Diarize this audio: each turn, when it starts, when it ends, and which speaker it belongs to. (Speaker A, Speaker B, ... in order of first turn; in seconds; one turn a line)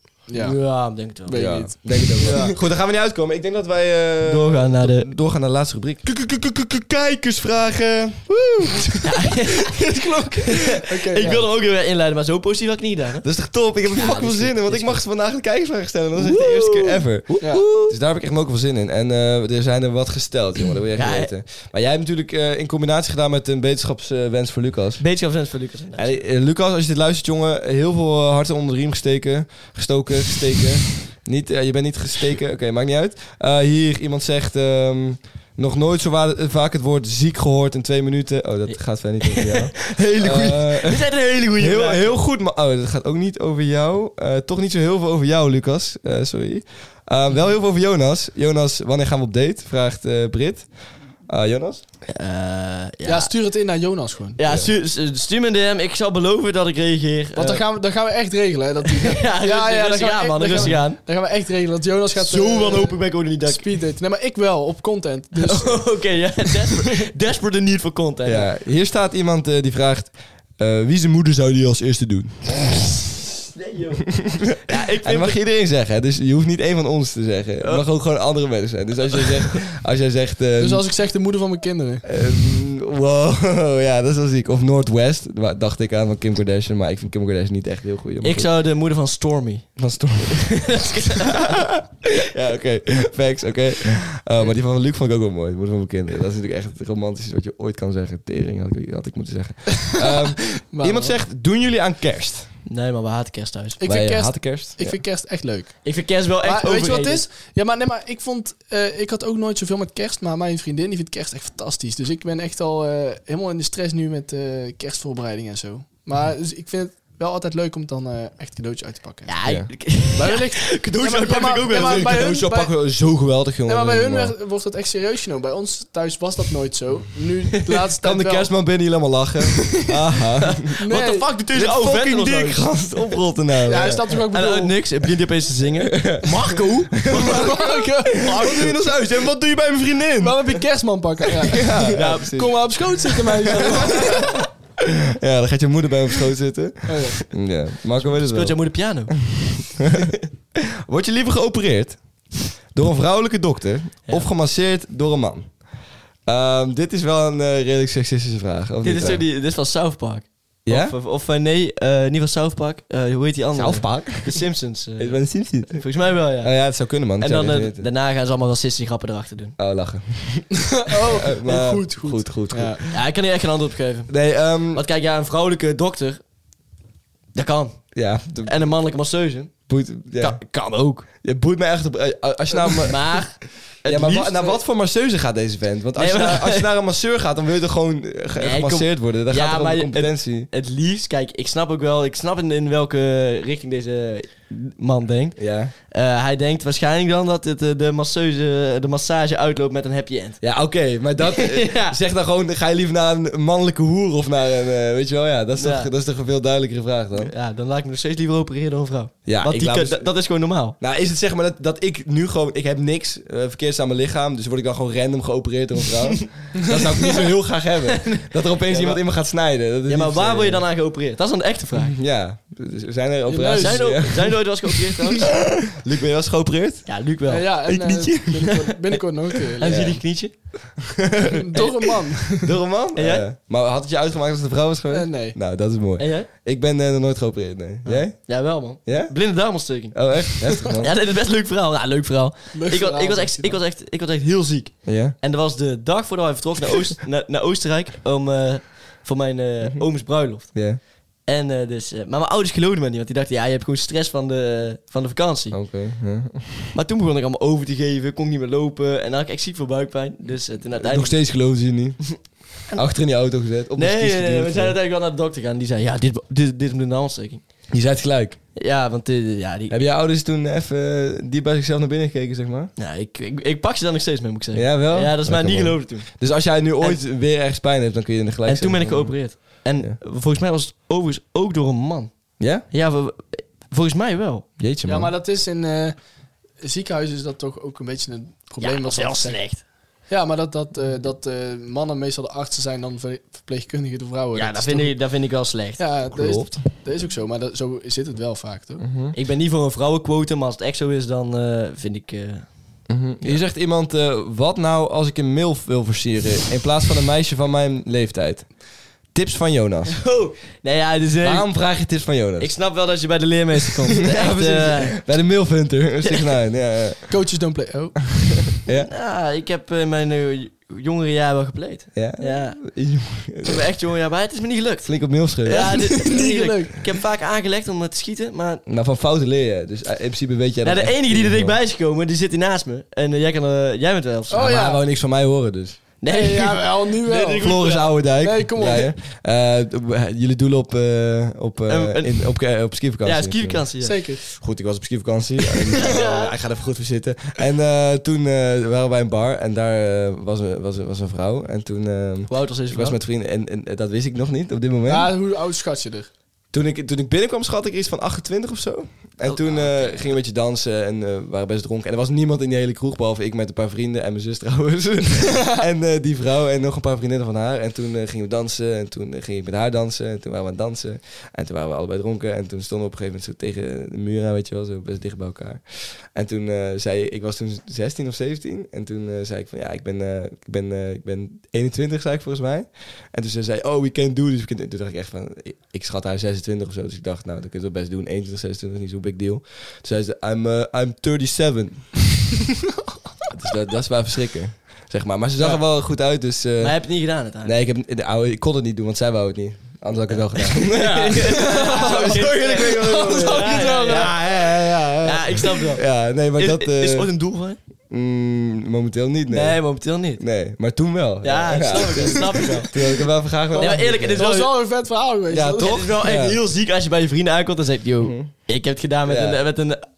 Speaker A: 0.3-0.6
Speaker B: 0.3-2.5
Speaker A: 1.2-2.6
Speaker C: 1.3-10.5
Speaker B: 4.2-5.1
Speaker B: 9.0-9.8
Speaker B: 10.4-13.3
Speaker A: 10.4-11.4
Speaker C: 13.2-25.0
Speaker B: 13.8-15.0
Speaker B: 16.1-18.0
Speaker A: 17.4-17.7
Speaker B: 20.9-21.3
Speaker B: 25.0-26.1
Speaker C: 25.9-41.0
Speaker B: 39.2-42.1
Speaker C: 41.6-50.7
Speaker C: 51.2-51.8
Speaker B: 52.0-53.3
Speaker A: 53.0-54.4
Speaker B: 54.4-57.6
Speaker C: 54.4-54.7
Speaker A: 57.3-65.9
Speaker B: 58.9-61.0
Speaker B: 62.1-63.7
Speaker B: 65.3-68.5
Speaker C: 68.2-72.5
Speaker B: 73.5-75.3
Speaker C: 74.2-80.8
Speaker A: 80.6-82.0
Speaker C: 82.0-88.5
Speaker B: 88.2-91.7
Speaker C: 89.8-102.5
Speaker A: 100.1-101.1
Speaker B: 102.7-103.8
Speaker A: 103.8-119.3
Speaker C: 103.8-105.0
Speaker B: 105.8-107.2
Speaker B: 119.3-122.2
Speaker C: 119.4-119.7
Speaker A: 119.9-122.7
Speaker C: 121.7-124.3
Speaker A: 123.7-128.5
Speaker C: 128.0-130.7
Speaker B: 130.6-132.9
Speaker A: 130.8-131.2
Speaker C: 131.5-134.0
Speaker A: 133.7-134.7
Speaker B: 133.7-137.6
Speaker C: 135.9-140.6
Speaker A: 137.1-138.8
Speaker A: 140.2-144.4
Speaker C: 141.2-148.6
Speaker B: 141.9-142.4
Speaker B: 143.7-144.0
Speaker A: 146.9-147.2
Speaker B: 148.0-149.5
Speaker C: 149.3-152.0
Speaker C: 152.7-155.5
Speaker C: 156.3-159.2
Speaker B: 158.8-166.6
Speaker C: 160.7-160.9
Speaker C: 163.5-164.4
Speaker C: 165.0-165.8
Speaker C: 166.4-167.9
Speaker B: 167.2-169.6
Speaker C: 169.6-170.5
Speaker A: 170.8-172.8
Speaker C: 171.0-173.0
Speaker B: 172.9-176.2
Speaker C: 174.1-174.8
Speaker B: 177.3-179.5
Speaker C: 177.9-178.6
Speaker C: 179.7-180.4
Speaker B: 180.2-181.1
Speaker C: 181.2-183.2
Speaker B: 182.5-184.6
Speaker C: 183.8-190.5
Speaker B: 185.9-186.7
Speaker B: 188.4-200.4
Speaker C: 195.4-195.7
Speaker C: 200.4-207.3
Speaker B: 201.2-202.0
Speaker B: 205.6-205.9
Speaker B: 207.2-210.8
Speaker C: 209.2-210.1
Speaker C: 210.8-220.6
Speaker B: 217.9-219.0
Speaker B: 219.9-221.9
Speaker C: 221.8-224.4
Speaker A: 223.3-224.0
Speaker B: 223.6-225.3
Speaker C: 225.2-226.8
Speaker B: 226.8-229.0
Speaker A: 227.3-229.9
Speaker B: 229.5-230.3
Speaker C: 229.6-230.0
Speaker C: 231.0-231.7
Speaker A: 231.3-232.5
Speaker B: 231.5-231.9
Speaker C: 232.4-238.3
Speaker B: 232.9-233.2
Speaker A: 234.9-235.3
Speaker B: 236.0-236.3
Speaker B: 237.8-250.7
Speaker C: 238.8-239.2
Speaker C: 239.9-240.9
Speaker A: 242.5-243.6
Speaker C: 244.8-245.2
Speaker C: 250.5-250.8
Speaker B: 251.2-255.6
Speaker C: 255.5-256.7
Speaker B: 256.7-261.6
Speaker C: 260.8-264.8
Speaker B: 263.8-267.4
Speaker C: 267.7-268.4
Speaker B: 268.6-269.7
Speaker C: 269.7-272.7
Speaker B: 272.8-276.2
Speaker C: 274.5-280.0
Speaker B: 278.4-284.5
Speaker C: 282.4-282.7
Speaker C: 284.6-285.1
Speaker A: 284.9-286.0
Speaker A: 286.6-289.4
Speaker B: 288.6-289.6
Speaker A: 290.1-294.9
Speaker B: 294.3-295.8
Speaker A: 295.8-298.8
Speaker C: 296.1-296.6
Speaker C: 298.8-299.1
Speaker B: 299.1-302.5
Speaker C: 302.9-308.6
Speaker C: 309.1-310.0
Speaker B: 309.9-311.7
Speaker C: 311.2-312.5
Speaker B: 312.4-315.0
Speaker C: 314.0-317.1
Speaker A: 317.1-318.6
Speaker C: 318.6-318.9
Speaker B: 318.9-322.8
Speaker C: 321.9-323.6
Speaker B: 323.4-328.6
Speaker C: 324.8-325.8
Speaker A: 325.5-326.9
Speaker C: 328.6-331.6
Speaker B: 330.6-334.7
Speaker A: 334.3-334.8
Speaker C: 334.3-335.8
Speaker B: 336.0-338.0
Speaker A: 336.1-337.6
Speaker C: 337.4-343.7
Speaker A: 338.2-338.9
Speaker B: 341.7-342.3
Speaker B: 343.0-344.2
Speaker A: 343.8-344.2
Speaker C: 344.3-355.1
Speaker B: 345.7-346.3
Speaker B: 352.3-353.0
Speaker A: 354.9-356.1
Speaker C: 356.5-391.9
Speaker B: 359.2-360.1
Speaker C: 393.3-407.1
Speaker B: 395.4-395.8
Speaker B: 396.6-397.5
Speaker B: 400.3-407.6
Speaker A: 401.3-404.4
Speaker C: 407.9-409.6
Speaker B: 409.3-410.2
Speaker C: 410.2-414.3
Speaker B: 411.2-412.7
Speaker A: 413.5-415.8
Speaker B: 413.6-414.5
Speaker C: 415.3-416.4
Speaker B: 415.6-419.8
Speaker C: 418.0-418.3
Speaker C: 419.1-419.4